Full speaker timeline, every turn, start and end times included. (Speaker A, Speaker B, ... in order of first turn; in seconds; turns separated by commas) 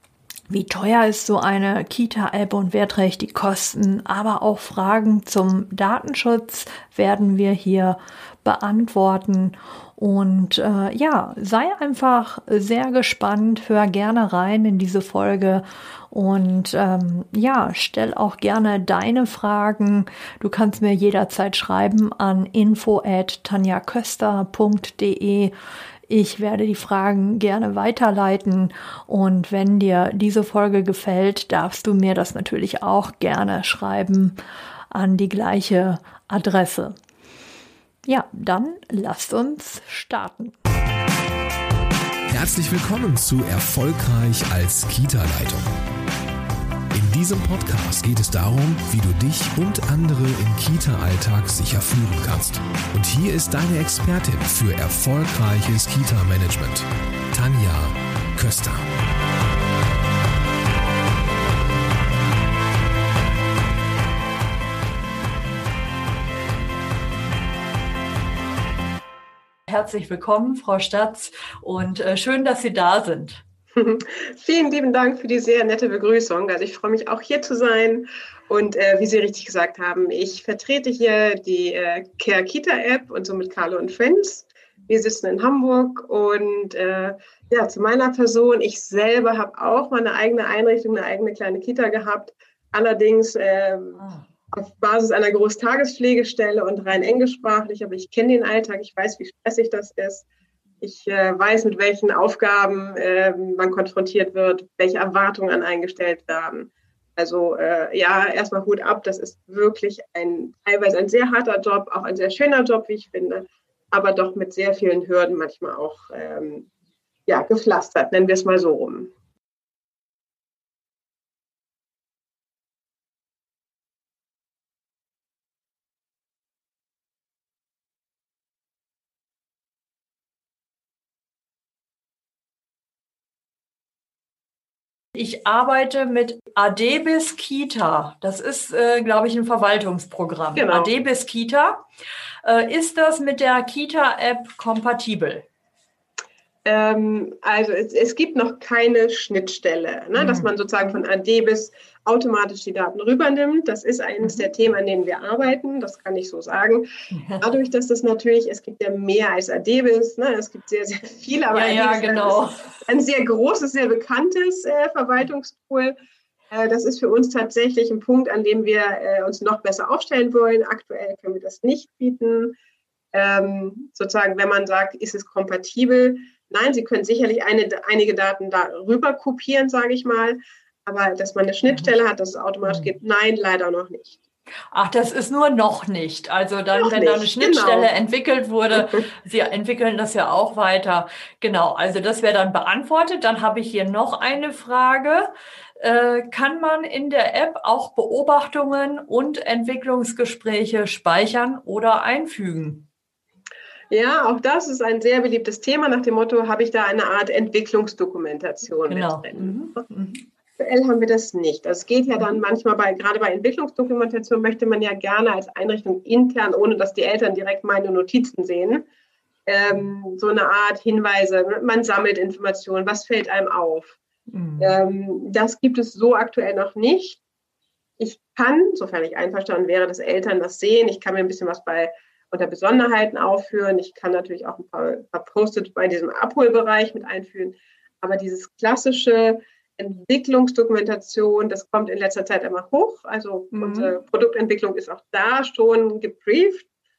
Speaker A: 0.5-25.5, Speaker A: 26.1-34.4, Speaker A: 34.9-37.0, Speaker A: 38.1-40.5, Speaker B: 42.3-45.7, Speaker B: 46.9-58.9, Speaker A: 69.7-73.4, Speaker C: 73.7-100.2, Speaker C: 100.8-116.7, Speaker C: 117.3-119.1, Speaker A: 135.1-141.8, Speaker C: 140.6-140.9, Speaker A: 142.4-145.5, Speaker C: 146.6-156.9, Speaker A: 150.2-150.5, Speaker A: 154.2-154.5, Speaker A: 157.1-157.5, Speaker C: 157.4-165.9, Speaker A: 161.5-162.7, Speaker C: 166.5-172.5, Speaker C: 173.1-184.2, Speaker A: 182.6-182.9, Speaker A: 184.7-202.9, Speaker C: 186.8-187.9, Speaker C: 203.9-209.6, Speaker A: 208.9-210.2, Speaker C: 210.6-218.8, Speaker C: 219.5-224.0, Speaker A: 224.3-224.8, Speaker C: 224.6-227.2, Speaker C: 228.0-246.7, Speaker A: 243.5-243.9